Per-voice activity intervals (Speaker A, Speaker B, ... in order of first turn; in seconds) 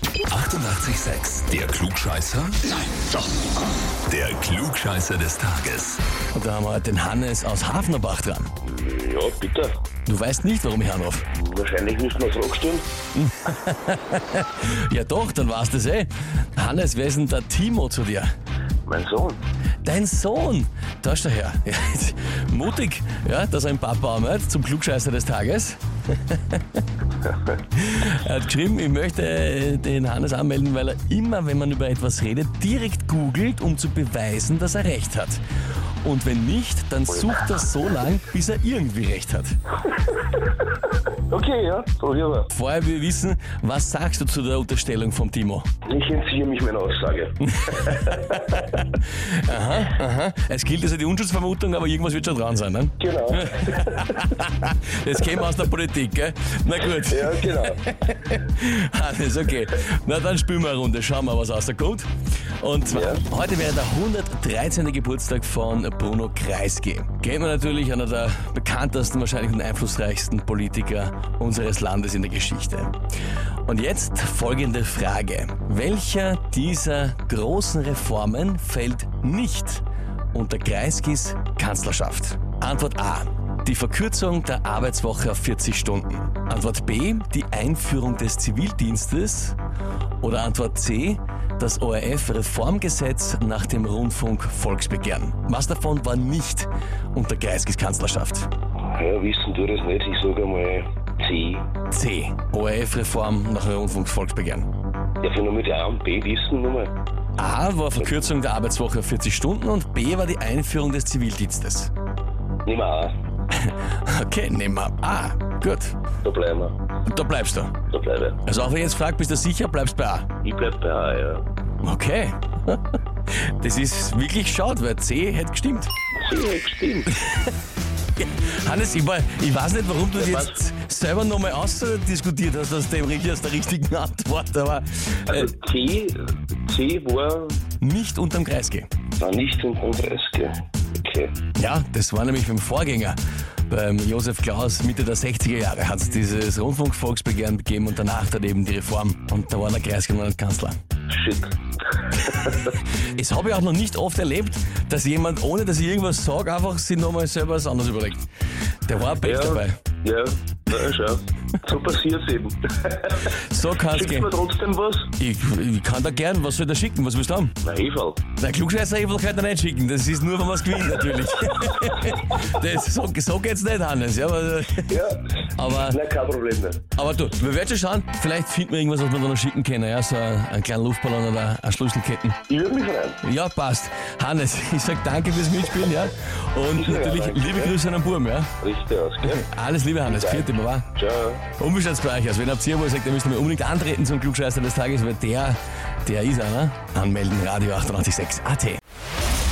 Speaker A: 0.3-2.8, 4.1-6.0
Speaker B: 6.3-8.5, 10.1-11.3, 13.2-18.3, 19.8-26.8, 27.7-35.4, 36.0-39.6, 42.5-45.7, 47.4-62.1, 62.6-72.9, 73.7-89.6, 90.2-98.5, 101.9-104.7, 107.4-111.9, 113.5-116.0, 117.0-117.8, 118.5-120.3, 121.8-125.9, 127.2-127.5, 128.2-135.5, 137.8-138.9, 141.6-143.2, 143.7-150.8, 152.2-158.3, 158.9-159.8, 163.3-164.3, 165.2-167.6, 168.4-174.9, 175.6-176.0, 177.0-182.4, 183.2-188.5, 189.2-190.9, 191.6-198.8
Speaker C: 8.6-9.7, 11.3-12.9, 18.9-19.4, 40.1-42.5, 45.9-48.6, 53.0-54.2, 56.9-57.8, 62.9-63.2, 98.8-101.7, 105.2-106.9, 112.7-113.1, 116.2-116.8, 117.9-118.4, 120.4-121.5, 126.2-127.1, 130.1-130.6, 135.3-137.6, 139.2-141.3, 151.1-151.6, 152.3-152.6, 159.2-163.3, 163.9-165.1, 167.6-168.2, 174.9-175.2, 175.8-176.8, 182.5-183.2, 186.8-187.8, 188.6-189.4, 190.0-191.4